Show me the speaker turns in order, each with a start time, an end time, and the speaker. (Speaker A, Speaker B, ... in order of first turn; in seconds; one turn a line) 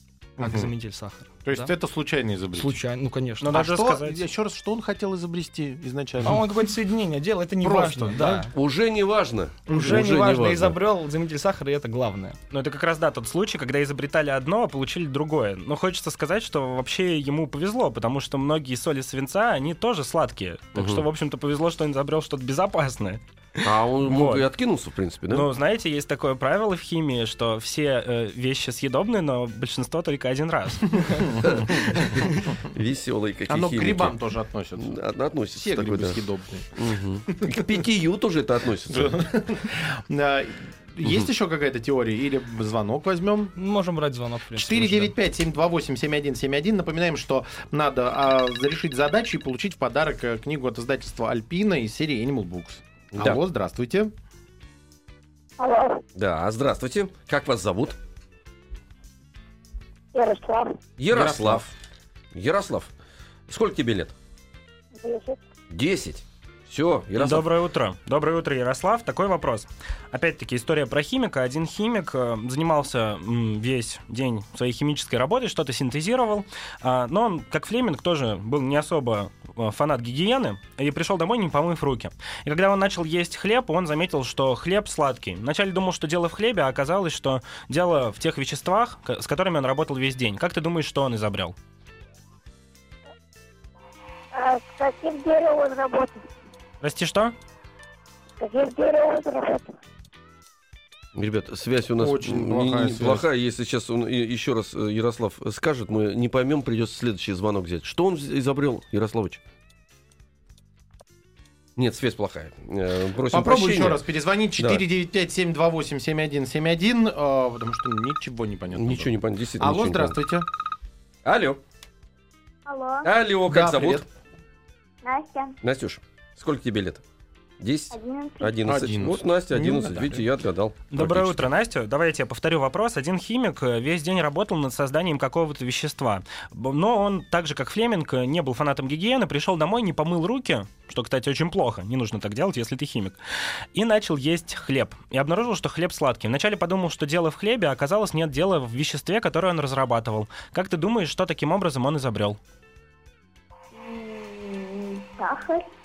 Speaker A: 0.4-0.7
Speaker B: 0.4-1.7
Speaker A: 1.4-2.8
Speaker B: 2.5-3.6
Speaker C: 3.4-4.2
Speaker A: 3.5-6.4
Speaker B: 6.2-8.5
Speaker A: 7.6-8.5
Speaker D: 8.5-10.8
Speaker B: 9.7-12.4
Speaker A: 9.7-10.0
Speaker C: 12.5-24.5
Speaker D: 20.8-21.1
Speaker D: 23.6-25.5
Speaker C: 25.3-31.4
Speaker A: 31.0-32.2
Speaker D: 31.4-34.1
Speaker A: 33.5-35.0
Speaker D: 34.8-36.2
Speaker A: 35.5-36.7
Speaker D: 36.8-39.2
Speaker A: 38.9-43.5
Speaker B: 43.6-45.1
Speaker A: 44.6-54.1
Speaker D: 53.1-53.4
Speaker E: 55.6-56.0
Speaker D: 56.2-58.0
Speaker E: 60.1-60.8
Speaker D: 61.0-61.7
Speaker A: 61.1-61.6
Speaker D: 62.3-62.9
Speaker D: 63.5-64.1
Speaker E: 65.0-65.4
Speaker D: 65.7-67.5
Speaker C: 67.2-91.5
Speaker E: 94.3-96.2
Speaker C: 96.8-97.3
Speaker E: 98.4-99.7
Speaker D: 101.2-109.4
Speaker A: 102.0-103.2
Speaker D: 111.8-114.0
Speaker A: 113.3-120.5
Speaker D: 114.6-114.8
Speaker D: 118.7-120.2
Speaker D: 121.2-121.6
Speaker F: 122.7-123.1
Speaker D: 123.0-124.1
Speaker A: 123.5-124.1
Speaker F: 125.0-125.5
Speaker D: 125.6-127.0
Speaker D: 127.6-131.5
Speaker F: 127.9-128.6
Speaker A: 128.6-130.2
Speaker C: 130.9-143.2
Speaker C: 143.8-152.4
Speaker F: 153.8-155.7